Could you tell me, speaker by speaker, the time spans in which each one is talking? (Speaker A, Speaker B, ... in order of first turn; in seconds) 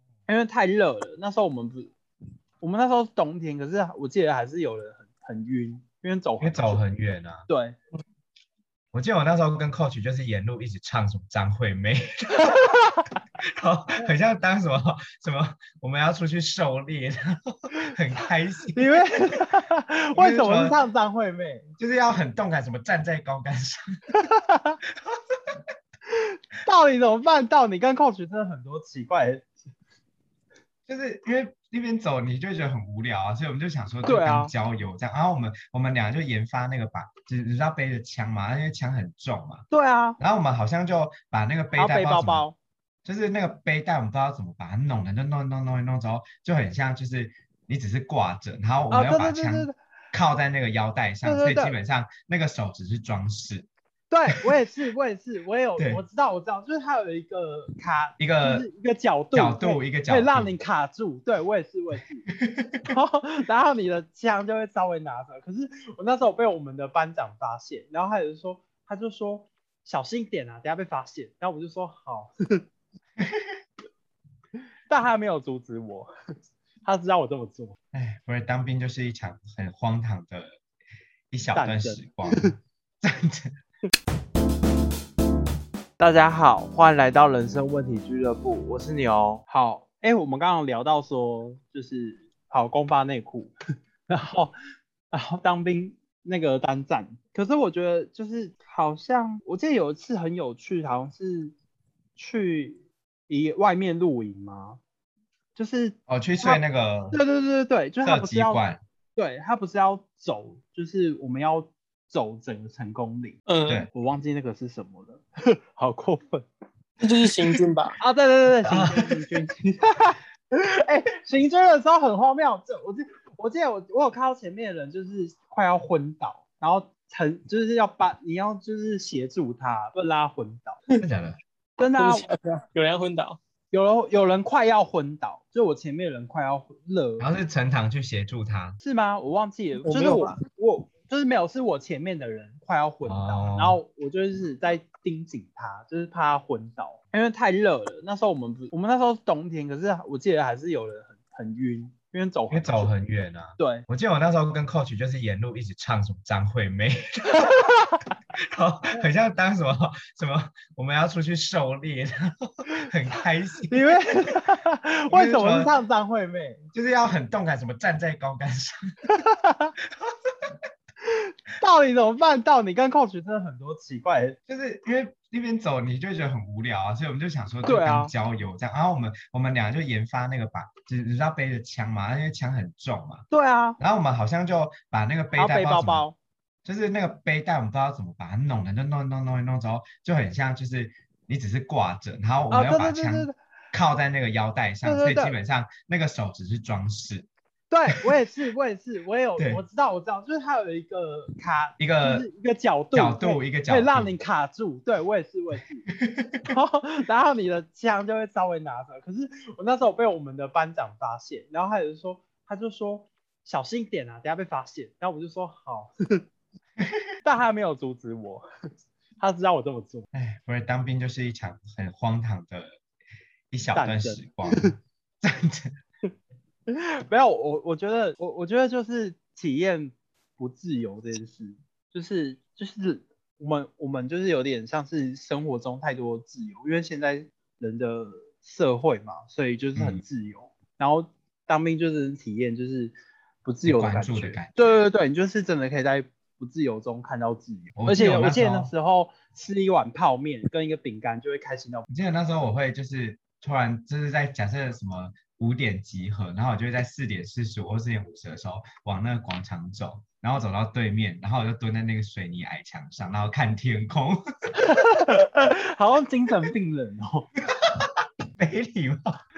Speaker A: 0.3-1.9, 2.6-6.8, 7.5-7.8, 12.4-13.1, 18.7-21.7, 24.1-24.8, 26.6-29.5, 34.0-34.5, 39.7-40.2, 41.7-42.5, 48.9-49.8, 51.2-51.7, 54.1-62.3, 62.9-72.6, 74.9-76.1, 76.8-77.8, 81.5-82.5, 86.0-93.5, 94.1-94.5, 95.1-101.5, 102.2-104.8, 105.5-108.6, 109.2-113.4, 113.9-116.5, 118.0-130.8, 131.8-132.3, 133.7-137.3, 138.8-152.9, 153.6-153.8, 163.7-166.6, 169.1-169.7, 171.6-174.4, 177.7-178.1, 183.3-183.8, 185.3-186.2, 192.5-193.3, 194.8-195.3, 197.7-205.9, 206.5-216.2, 217.2-218.4, 219.2-220.1, 223.7-224.7, 226.7-251.8, 264.5-267.3
Speaker B: 6.4-7.5, 8.9-12.6, 13.6-19.0, 20.2-20.8, 21.8-23.8, 25.0-25.6, 30.9-39.6, 40.2-42.4, 43.0-53.7, 55.8-56.0, 58.2-58.6, 59.3-60.5, 62.4-62.9, 73.2-73.6, 77.9-80.6, 81.3-83.5, 106.1-107.2, 108.0-108.8, 118.7-119.3, 131.0-131.4, 137.2-138.8, 143.1-143.8, 152.5-157.5, 158.5-164.0, 165.1-165.7, 166.7-168.8, 169.9-170.5, 174.5-183.2, 183.8-186.0, 186.6-197.3, 199.4-199.6, 201.8-202.2, 202.9-204.1, 206.0-206.5, 220.1-222.8, 223.5-225.7, 239.8-240.0, 243.6-244.7, 247.7-248.7, 251.9-264.2, 267.7-269.2
Speaker C: 113.5-113.8, 117.0-118.0, 132.0-133.4, 139.8-140.4